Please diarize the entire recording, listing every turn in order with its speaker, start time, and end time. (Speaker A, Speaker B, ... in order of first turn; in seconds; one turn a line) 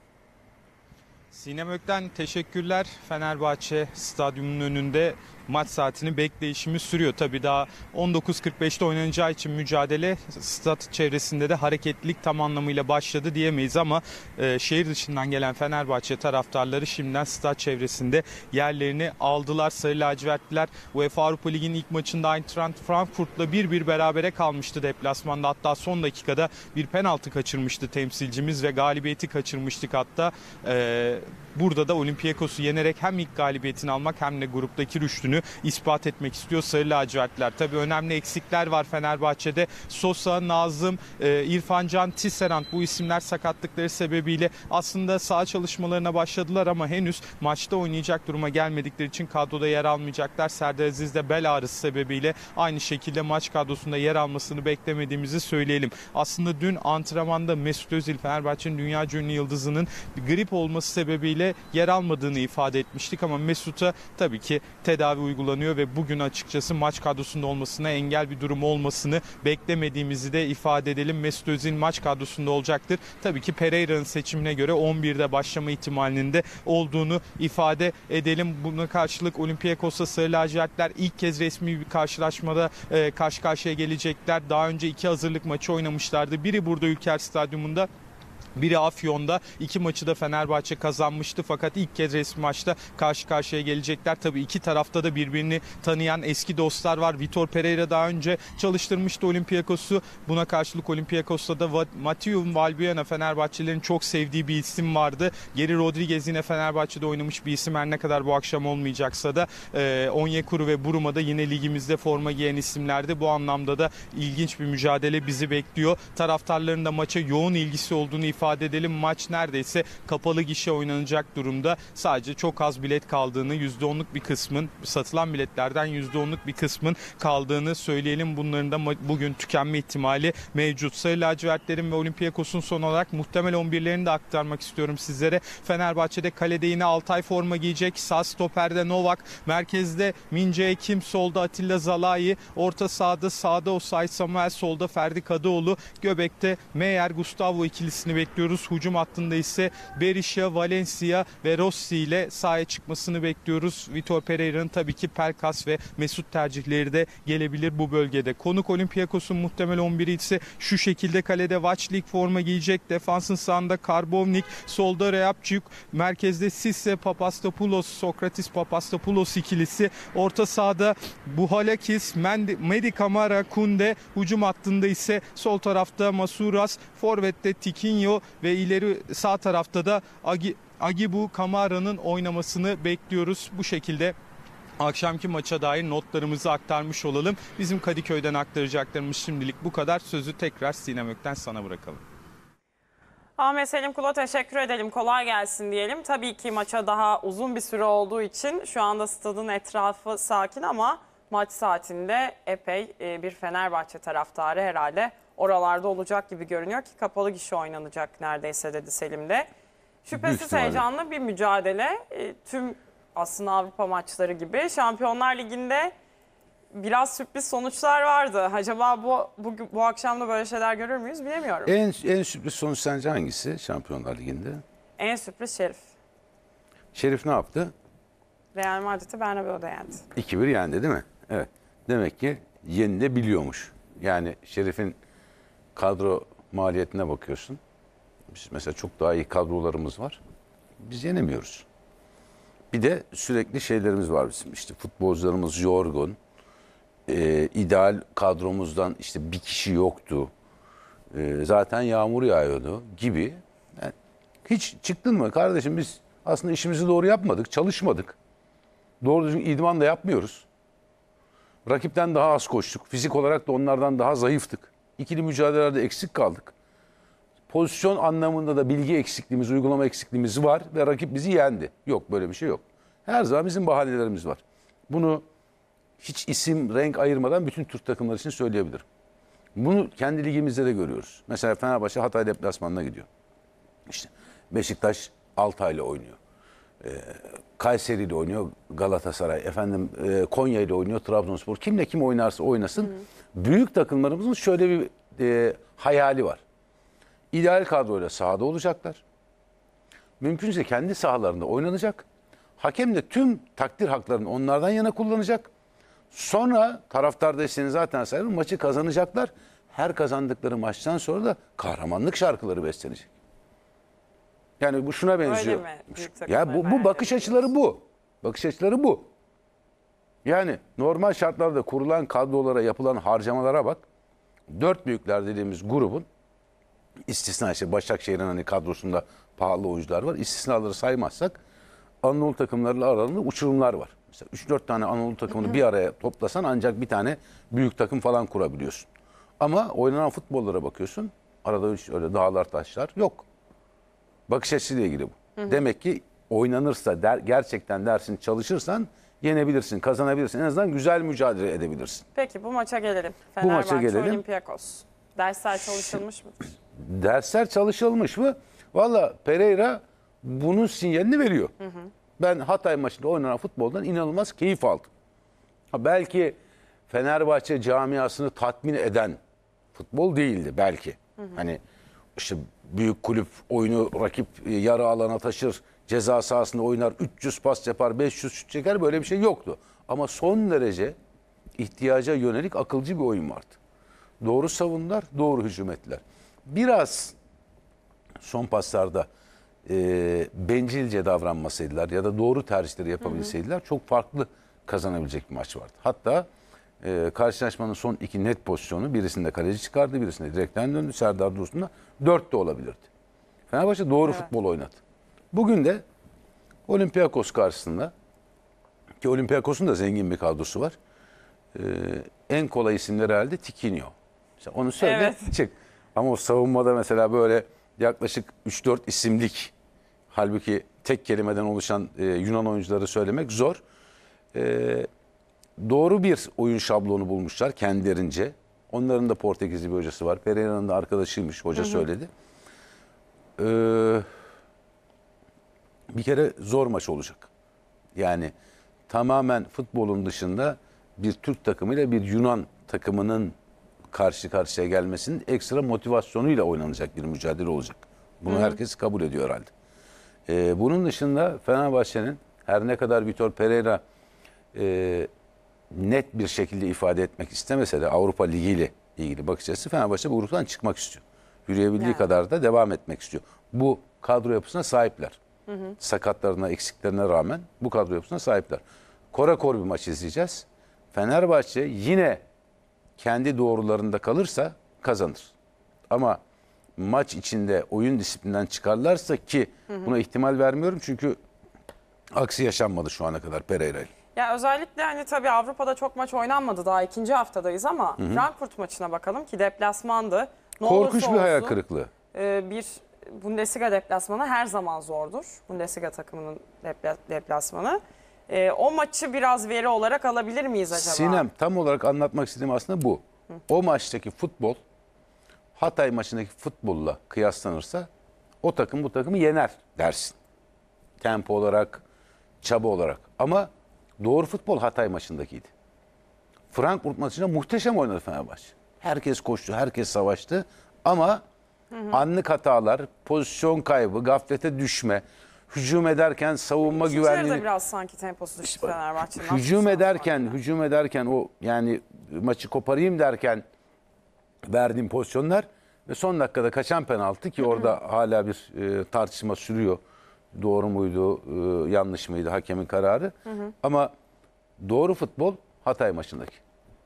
Speaker A: 1.3-87.9
Speaker A: 88.6-184.2
Speaker A: 184.8-192.0
Speaker B: 193.4-209.5
Speaker B: 210.1-215.9
Speaker C: 210.1-210.8
Speaker B: 216.7-221.7
Speaker C: 221.7-224.6
Speaker B: 225.0-225.8
Speaker C: 226.9-227.7
Speaker B: 228.5-230.1
Speaker C: 230.2-235.0
Speaker C: 235.8-237.6
Speaker C: 238.3-240.2
Speaker C: 240.8-241.7
Speaker C: 242.7-246.2
Speaker C: 247.1-250.3
Speaker C: 251.1-253.9
Speaker C: 254.5-258.2
Speaker C: 259.0-260.5
Speaker C: 261.7-266.5
Speaker C: 267.5-275.2
Speaker C: 276.0-278.9
Speaker C: 279.6-283.1
Speaker C: 283.9-286.2
Speaker C: 286.8-296.4
Speaker C: 297.3-299.0
Speaker C: 300.2-302.1
Speaker C: 302.6-305.5
Speaker C: 306.1-313.1
Speaker C: 314.6-319.1
Speaker B: 315.2-317.5
Speaker C: 320.2-323.9
Speaker C: 324.5-326.1
Speaker C: 327.1-331.4
Speaker C: 332.0-338.9
Speaker B: 335.3-335.6
Speaker C: 339.4-343.2
Speaker C: 344.3-352.1
Speaker B: 352.1-356.4
Speaker C: 353.4-354.2
Speaker C: 356.8-361.5
Speaker B: 361.6-361.9
Speaker C: 362.2-364.9
Speaker C: 365.7-366.4
Speaker C: 366.9-369.2
Speaker C: 369.7-371.6
Speaker C: 372.2-381.0
Speaker C: 381.6-383.6
Speaker C: 384.2-387.1
Speaker C: 388.2-389.1
Speaker C: 389.7-396.3
Speaker B: 393.0-393.3
Speaker C: 396.8-402.9
Speaker C: 403.5-404.8
Speaker C: 405.3-405.8
Speaker C: 406.7-407.9
Speaker C: 409.0-410.8
Speaker C: 411.5-419.5
Speaker B: 414.8-415.3
Speaker C: 420.1-423.6
Speaker C: 424.3-424.9
Speaker C: 425.6-432.1
Speaker B: 431.6-431.9
Speaker C: 433.4-434.1
Speaker C: 435.9-437.3
Speaker C: 437.9-438.3
Speaker C: 438.9-443.4
Speaker C: 443.9-449.5
Speaker B: 448.3-448.6
Speaker C: 450.3-453.8
Speaker C: 454.5-455.1
Speaker C: 455.7-465.2
Speaker B: 461.8-462.1
Speaker B: 465.5-465.8
Speaker C: 465.8-472.2
Speaker C: 473.0-475.3
Speaker C: 475.9-476.2
Speaker C: 476.8-481.2
Speaker C: 482.1-483.9
Speaker B: 484.1-491.6
Speaker C: 488.0-488.3
Speaker C: 490.6-491.9
Speaker B: 492.1-501.3
Speaker C: 500.7-504.6
Speaker C: 505.6-507.9
Speaker C: 508.4-510.2
Speaker C: 511.0-511.8
Speaker C: 512.4-515.5
Speaker C: 516.5-521.2
Speaker B: 521.7-522.0
Speaker C: 521.9-527.5
Speaker B: 526.7-530.4
Speaker C: 528.4-533.4
Speaker C: 534.5-539.8
Speaker B: 537.4-537.7
Speaker C: 540.3-543.9
Speaker B: 543.3-543.5
Speaker C: 544.6-546.4